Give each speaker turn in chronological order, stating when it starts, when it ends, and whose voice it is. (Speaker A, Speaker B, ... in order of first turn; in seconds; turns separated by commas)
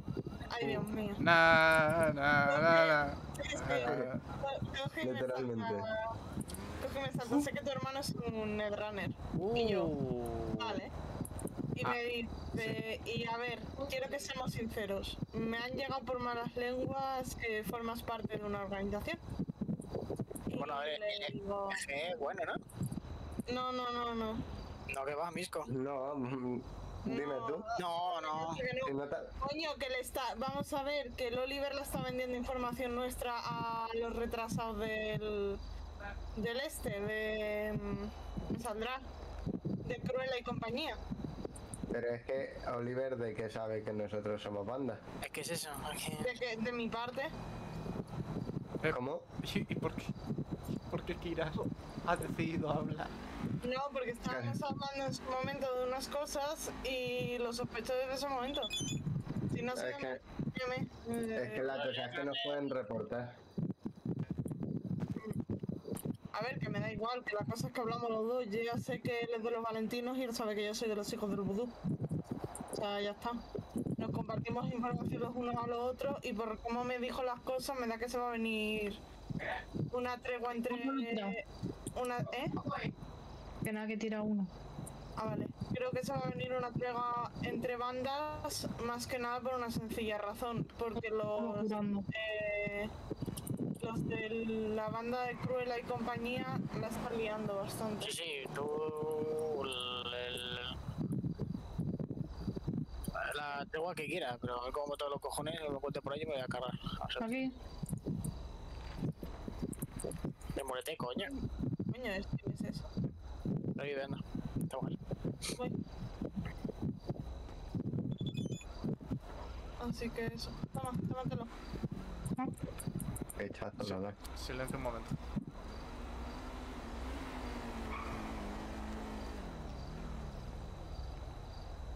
Speaker A: 0.5-1.2, Speaker B: 1.2-4.2, Speaker A: 2.5-5.9, Speaker C: 3.8-4.1, Speaker C: 5.0-5.9, Speaker A: 6.8-9.9, Speaker B: 9.3-10.8, Speaker A: 10.6-10.9, Speaker A: 11.8-19.2, Speaker A: 20.5-21.8, Speaker D: 21.8-22.6, Speaker A: 23.5-24.4, Speaker D: 24.9-25.6, Speaker C: 25.7-27.6, Speaker A: 27.1-35.6, Speaker C: 28.8-29.3, Speaker A: 36.4-39.0, Speaker A: 39.8-41.0, Speaker C: 41.9-45.0, Speaker D: 45.3-46.0, Speaker A: 46.2-47.3, Speaker B: 48.8-50.1, Speaker C: 48.9-49.2, Speaker B: 50.9-53.1, Speaker A: 53.6-58.7, Speaker C: 54.3-54.6, Speaker A: 59.5-62.0, Speaker C: 59.7-60.2, Speaker C: 61.3-63.4, Speaker A: 66.3-71.8, Speaker A: 72.7-73.4, Speaker A: 74.0-79.0, Speaker A: 79.9-81.4, Speaker E: 80.6-81.3, Speaker A: 81.9-82.5, Speaker E: 83.6-84.5, Speaker A: 85.2-92.9, Speaker E: 91.3-92.1, Speaker A: 93.8-98.1, Speaker D: 98.0-100.7, Speaker D: 103.3-107.3, Speaker E: 107.2-107.5, Speaker D: 110.6-111.2, Speaker A: 111.9-112.9, Speaker D: 113.8-114.9, Speaker A: 119.8-121.5, Speaker C: 123.4-124.2, Speaker B: 123.8-125.1